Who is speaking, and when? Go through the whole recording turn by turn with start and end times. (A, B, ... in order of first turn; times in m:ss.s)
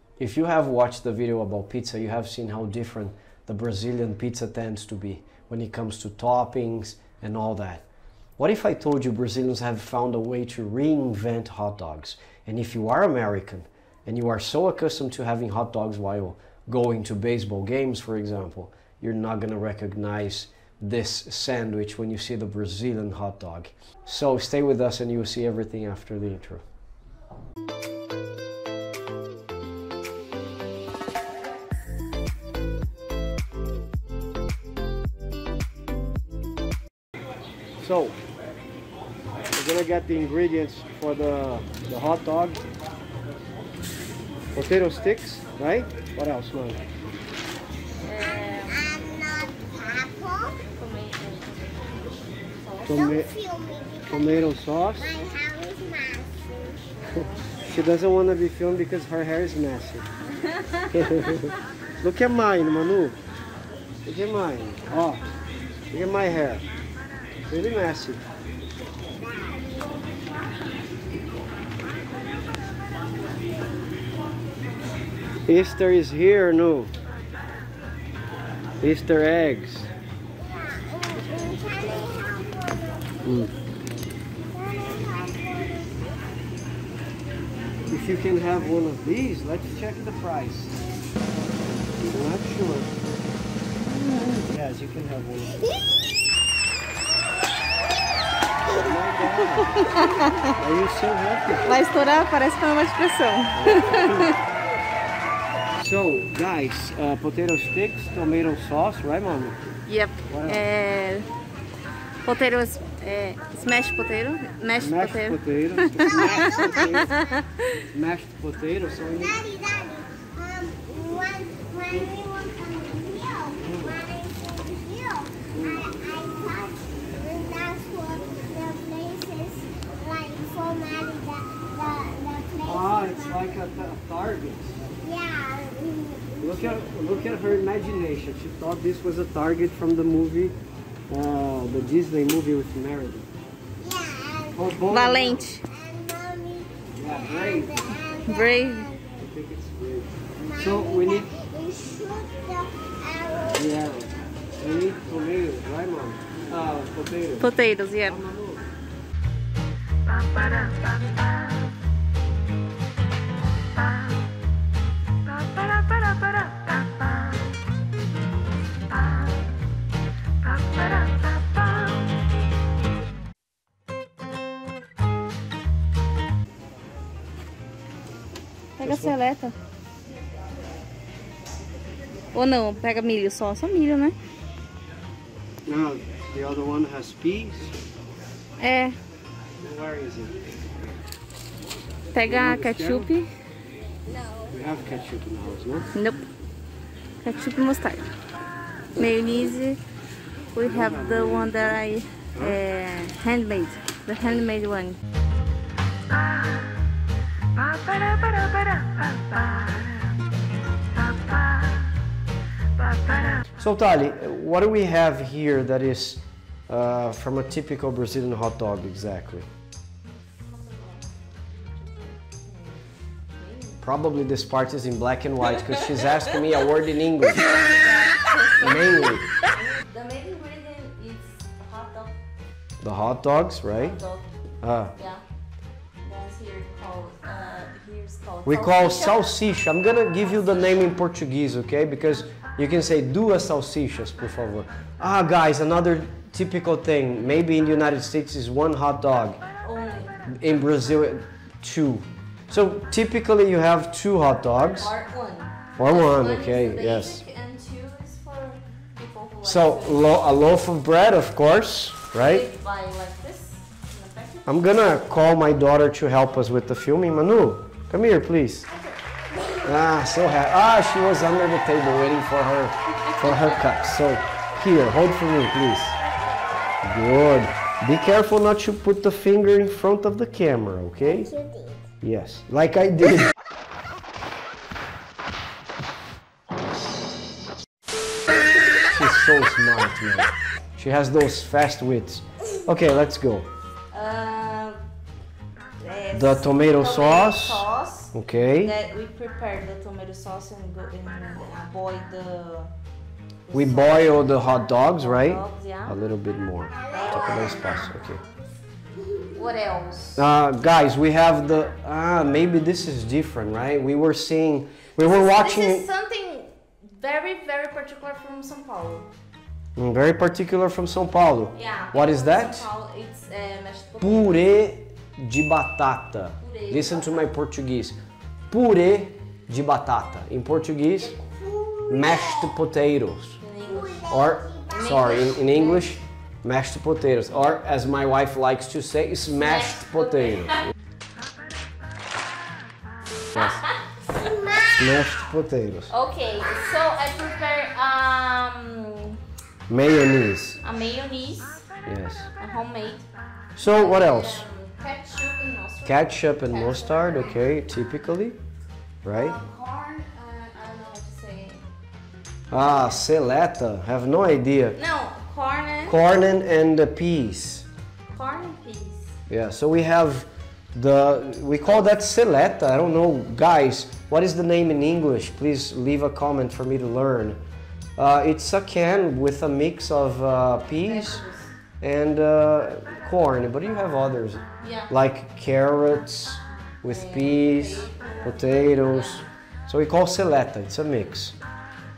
0:00.2-0:07.9 A
0:08.4-0:26.6 A
0:37.8-0:38.2 A
0:39.5-0:42.6 A
0:44.5-0:46.8 A
0:48.0-0:49.0 B
0:48.8-0:50.6 C
0:50.8-0:53.0 B
0:52.9-0:53.3 A
0:52.9-0:56.8 C
0:54.1-0:55.2 A
0:57.0-0:57.7 B
0:57.6-1:00.1 A
1:00.3-1:01.5 B
1:00.9-1:03.2 A
1:04.0-1:05.3 A
1:05.9-1:06.6 A
1:07.5-1:08.2 A
1:15.5-1:16.9 A
1:18.8-1:19.9 A
1:20.5-1:23.2 C
1:23.2-1:23.5 A
1:24.5-1:26.0 C
1:27.9-1:30.8 A
1:32.0-1:32.9 A
1:33.8-1:34.4 B
1:34.4-1:35.7 A
1:38.7-1:39.9 A
1:39.6-1:40.6 B
1:40.6-1:41.7 A
1:41.6-1:44.3 B
1:43.6-1:44.4 A
1:45.8-1:49.8 A
1:49.9-1:51.3 B
1:50.3-1:50.7 A
1:52.2-1:57.8 B
1:54.8-1:57.2 A
1:57.9-1:59.5 A
1:59.2-2:13.4 C
2:03.6-2:04.0 A
2:05.5-2:06.2 A
2:12.6-2:14.8 A
2:15.0-2:16.5 C
2:16.4-2:20.6 A
2:21.1-2:23.3 A
2:23.8-2:24.7 C
2:24.5-2:25.5 A
2:24.9-2:25.7 B
2:25.7-2:29.2 C
2:26.9-2:27.9 A
2:28.1-2:29.0 B
2:29.2-2:31.4 A
2:30.4-2:33.6 C
2:33.5-2:37.5 A
2:37.4-2:38.2 B
2:38.0-2:38.7 A
2:50.5-2:51.6 B
2:58.8-2:59.6 B
2:58.8-2:59.2 A
3:02.3-3:04.2 B
3:05.7-3:07.8 A
3:08.6-3:09.0 B
3:09.6-3:11.0 A
3:12.1-3:13.3 B
3:12.1-3:13.1 A
3:14.5-3:15.9 A
3:15.9-3:16.2 B
3:17.2-3:18.1 B
3:19.0-3:19.8 B
3:20.5-3:25.0 B
3:20.7-3:21.6 A
3:27.6-3:29.9 B
3:32.8-3:33.5 B
3:33.6-3:39.5 A
3:40.5-3:42.8 B
3:43.4-3:43.8 B
3:43.8-3:47.6 A
3:45.5-3:46.4 B
3:47.3-3:52.2 B
3:48.6-3:49.3 A
3:52.8-3:54.0 A
3:53.7-3:54.3 B
3:54.6-3:54.9 A
3:55.0-3:55.2 B
3:56.0-3:59.3 B
3:58.5-4:09.4 A
4:00.2-4:00.9 B
4:09.6-4:10.2 B
4:10.3-4:14.9 A
4:14.7-4:20.2 B
4:15.8-4:17.2 A
4:19.4-4:22.5 A
4:22.2-4:24.7 B
4:24.5-4:28.7 A
4:29.3-4:29.7 C
4:29.6-4:36.0 A
4:36.8-4:41.4 A
4:41.2-4:41.8 C
4:42.0-4:43.3 A
4:48.8-4:53.5 A
4:53.9-4:54.8 B
4:55.8-5:02.7 B
4:56.1-4:58.7 A
5:03.5-5:06.0 B
5:03.5-5:08.2 A
5:06.7-5:08.4 C
5:06.8-5:07.8 B
5:09.3-5:10.2 B
5:10.2-5:15.9 A
5:15.0-5:19.1 B
5:19.8-5:22.7 A
5:21.5-5:24.5 B
5:24.0-5:28.0 A
5:26.4-5:27.3 B
5:28.5-5:31.2 A
5:31.2-5:32.5 C
5:31.9-5:33.4 A
5:33.4-5:34.1 B
5:33.7-5:34.9 C
5:34.0-5:40.7 A
5:34.7-5:36.0 B
5:39.4-5:40.6 B
5:43.3-5:44.8 B
5:43.3-5:43.6 A
5:44.8-5:45.9 A
5:45.9-5:49.2 B
5:49.7-5:50.6 A
5:50.6-5:51.7 B
5:51.8-5:52.3 A
5:52.4-5:53.1 B
5:53.6-5:54.4 A
5:53.6-5:57.4 B
5:55.8-5:58.4 A
5:59.0-5:59.4 A
5:59.1-6:01.7 B
6:02.5-6:04.8 A
6:04.8-6:06.0 B
6:05.9-6:07.7 A
6:08.1-6:09.1 B
6:09.3-6:17.4 A
6:18.0-6:21.2 A
6:20.8-6:21.5 B
6:21.8-6:31.4 A
6:24.6-6:24.9 B
6:26.8-6:29.3 B